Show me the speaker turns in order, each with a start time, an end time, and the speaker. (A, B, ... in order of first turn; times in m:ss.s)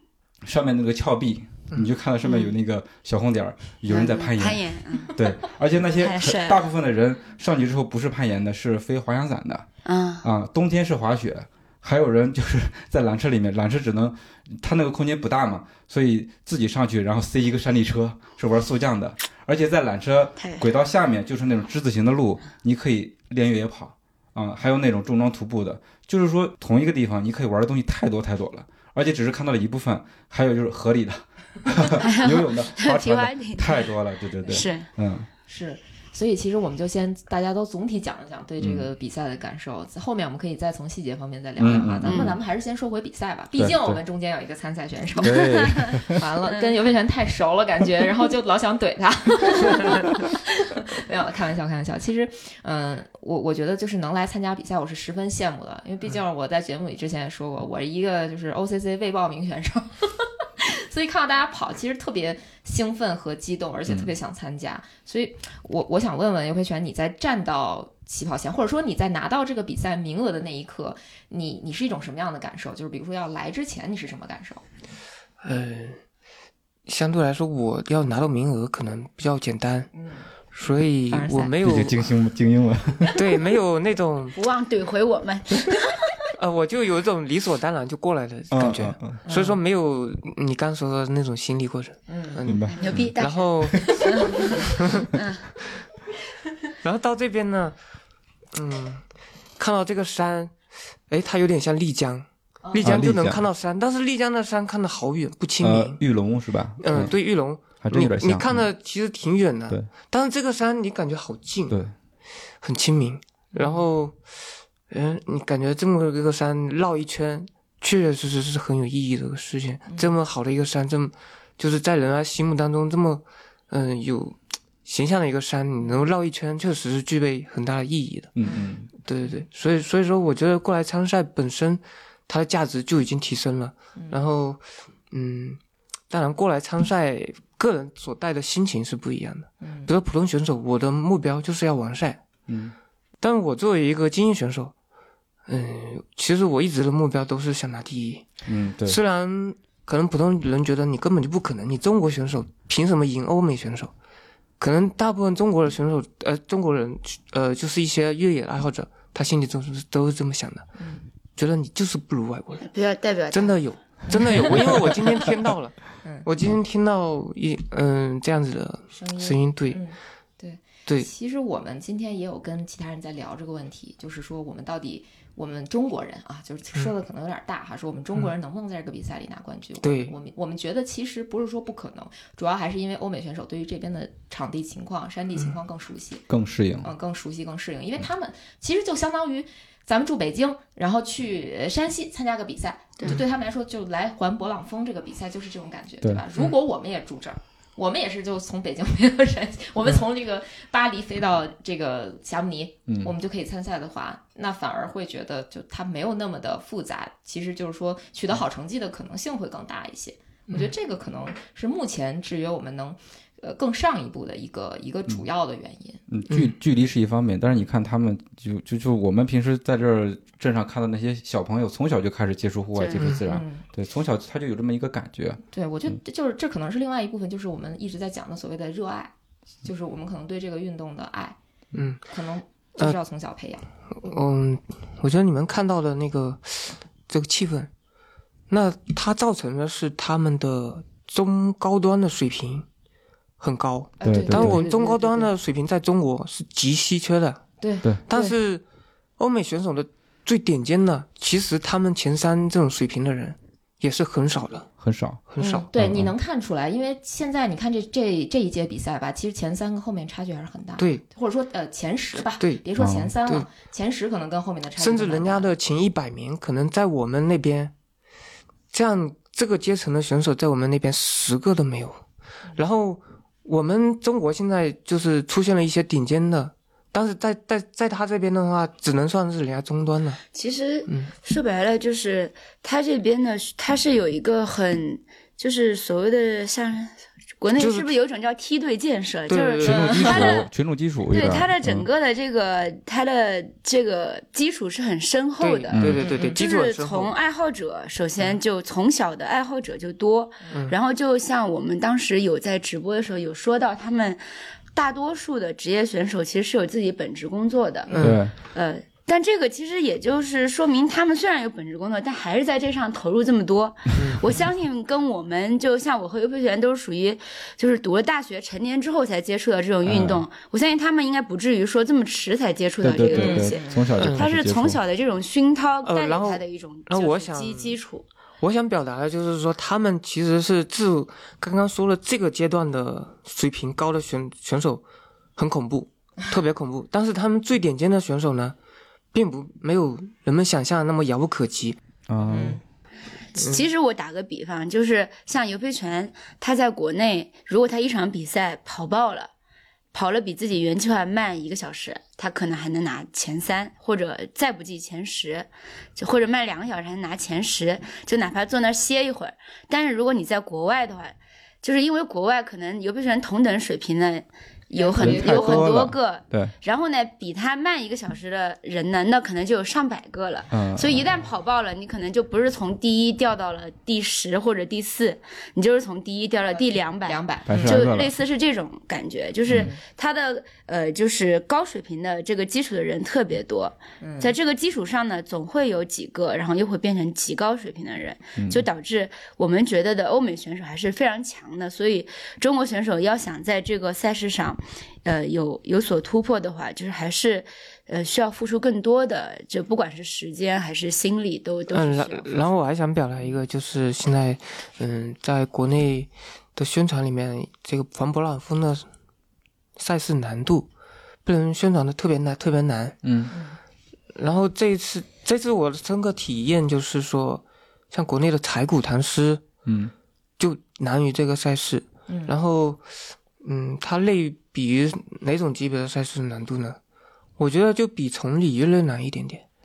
0:00.4-0:09.7 A
0:02.2-0:02.5 B
0:03.9-0:05.2 B
0:06.0-0:06.6 B
0:09.8-0:10.3 B
0:10.2-0:35.3 A
0:20.4-0:20.6 B
0:32.0-0:33.9 B
0:34.5-0:34.9 B
0:35.5-1:14.6 C
0:38.6-0:38.9 A
0:41.6-0:42.4 A
0:42.0-0:42.4 B
0:43.6-0:44.0 A
0:45.2-0:46.2 A
1:03.9-1:04.2 A
1:15.4-1:16.0 D
1:16.9-1:19.9 D
1:19.9-1:20.3 C
1:20.5-1:22.0 D
1:21.1-1:21.6 C
1:21.6-1:23.1 A
1:23.2-1:24.4 D
1:24.3-1:26.3 B
1:26.4-1:35.1 D
1:28.5-1:29.2 A
1:29.2-1:29.6 C
1:32.1-1:32.4 C
1:32.4-1:33.1 A
1:32.7-1:35.5 B
1:33.8-1:34.2 C
1:36.8-1:37.8 D
1:38.5-1:39.1 D
1:39.6-1:40.6 D
1:41.1-1:46.0 D
1:42.6-1:43.0 C
1:42.8-1:43.4 A
1:45.6-1:48.7 A
1:46.8-1:51.8 D
1:52.6-1:54.3 D
1:53.5-1:53.8 C
1:54.9-2:08.4 D
2:08.4-2:08.9 A
2:09.0-2:15.6 D
2:14.0-2:14.2 C
2:16.1-2:22.2 D
2:19.6-2:19.9 C
2:22.5-2:22.8 A
2:23.2-2:24.7 D
2:25.5-2:28.3 D
2:28.5-2:29.0 A
2:28.8-2:33.9 D
2:34.6-2:40.7 D
2:40.8-2:41.0 C
2:41.4-2:42.7 D
2:42.6-2:43.6 B
2:43.3-2:49.8 D
2:44.1-2:44.6 C
2:49.0-3:06.2 C
2:59.8-3:00.2 D
3:06.3-3:06.9 A
3:06.8-3:36.0 C
3:36.1-3:46.0 A
3:42.8-3:43.1 B
3:43.3-3:43.6 C
3:45.5-3:49.1 C
3:49.6-3:51.4 C
3:51.7-3:52.1 D
3:52.1-3:53.6 C
3:53.9-3:57.7 D
3:58.5-4:02.7 D
4:03.4-4:07.4 D
4:04.0-4:05.3 C
4:04.0-4:04.6 A
4:07.6-4:08.4 C
4:08.0-4:08.6 D
4:09.2-4:14.7 D
4:14.8-4:15.2 A
4:15.3-4:15.7 D
4:15.4-4:25.5 C
4:15.8-4:16.1 A
4:20.8-4:21.0 D
4:22.8-4:23.1 A
4:24.8-4:27.7 D
4:28.7-4:32.0 D
4:32.6-4:40.2 D
4:40.3-4:50.5 B
4:47.6-4:47.9 D
4:49.3-4:50.1 D
4:49.6-4:51.9 A
4:49.7-4:50.2 C
4:51.1-5:04.2 B
4:55.4-4:57.1 D
4:55.7-4:56.1 A
4:56.1-4:56.4 C
5:04.7-5:28.1 B
5:07.9-5:08.2 D
5:08.0-5:08.3 A
5:14.0-5:14.3 D
5:19.8-5:20.2 A
5:22.8-5:24.8 A
5:23.1-5:23.9 C
5:24.0-5:24.3 D
5:25.8-5:27.8 D
5:28.4-5:34.8 D
5:35.4-5:38.6 D
5:39.1-5:41.8 D
5:42.1-5:42.6 A
5:42.3-5:42.6 C
5:43.4-5:43.7 D
5:43.4-5:49.3 B
5:49.9-6:42.4 B
6:04.7-6:05.7 C
6:05.0-6:06.5 A
6:10.5-6:11.1 A
6:16.6-6:17.8 C
6:17.5-6:18.1 A
6:19.5-6:19.8 C
6:24.0-6:24.3 C
6:28.4-6:28.6 A
6:41.7-6:48.8 D
6:49.8-6:50.7 D
6:51.2-6:53.0 D
6:53.0-6:53.4 A
6:53.3-6:53.6 C
6:54.2-6:59.4 D
6:59.7-6:59.9 A
7:00.4-7:06.8 D
7:02.1-7:02.3 C
7:07.4-7:09.4 D